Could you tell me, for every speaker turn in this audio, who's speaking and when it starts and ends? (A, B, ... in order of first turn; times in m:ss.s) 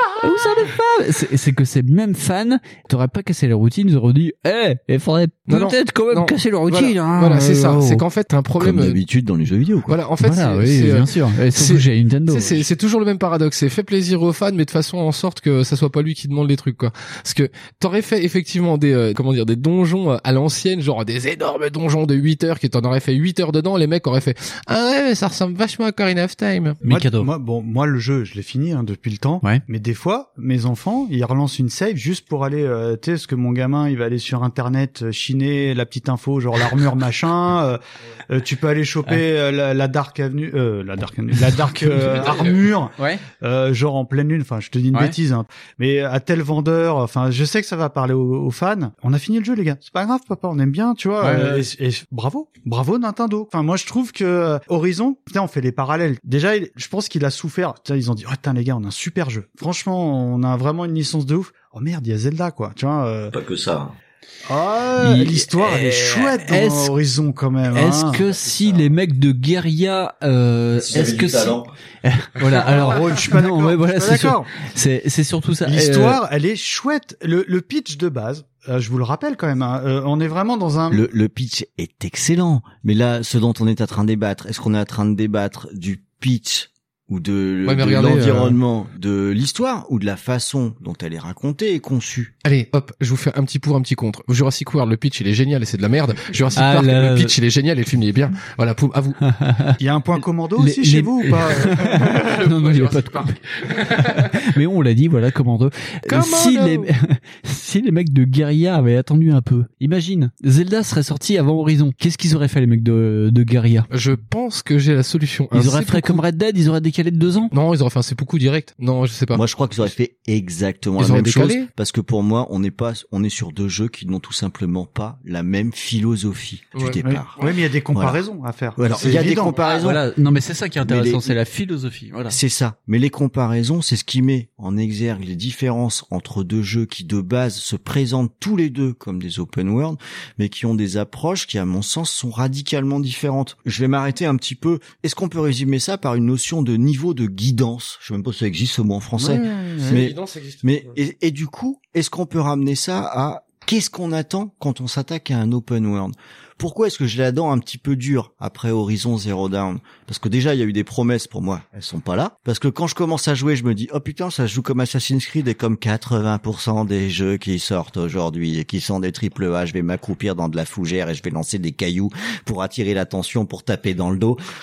0:00.2-0:08.0 A
0:05.5-0:09.0 B
0:08.6-0:10.0 C
0:09.9-0:26.8 B
0:10.2-0:12.6 A
0:26.8-0:27.3 A
0:26.8-1:03.4 D
0:41.6-0:42.2 A
0:42.2-0:42.5 B
0:43.0-0:43.2 A
0:51.2-0:51.7 A
1:03.3-1:03.9 C
1:04.5-1:08.2 D
1:05.0-1:06.9 A
1:07.7-1:16.2 A
1:08.2-1:08.8 C
1:10.8-1:11.7 C
1:12.6-1:14.5 D
1:15.7-1:21.0 D
1:20.9-1:32.3 C
1:27.7-1:28.6 B
1:32.4-1:39.2 B
1:36.6-1:37.4 A
1:39.2-1:39.8 A
1:39.8-1:42.4 D
1:40.6-1:53.9 A
1:42.2-1:44.4 B
1:46.1-1:46.9 B
1:53.9-1:56.2 B
1:55.5-1:57.5 A
1:57.5-1:59.5 B
1:59.3-2:07.4 C
2:01.0-2:01.7 B
2:06.7-2:07.0 B
2:07.0-2:09.6 D
2:07.9-2:08.2 C
2:08.8-2:10.0 C
2:09.3-2:12.4 A
2:10.8-2:11.4 C
2:12.3-2:54.4 C
2:29.2-2:30.6 B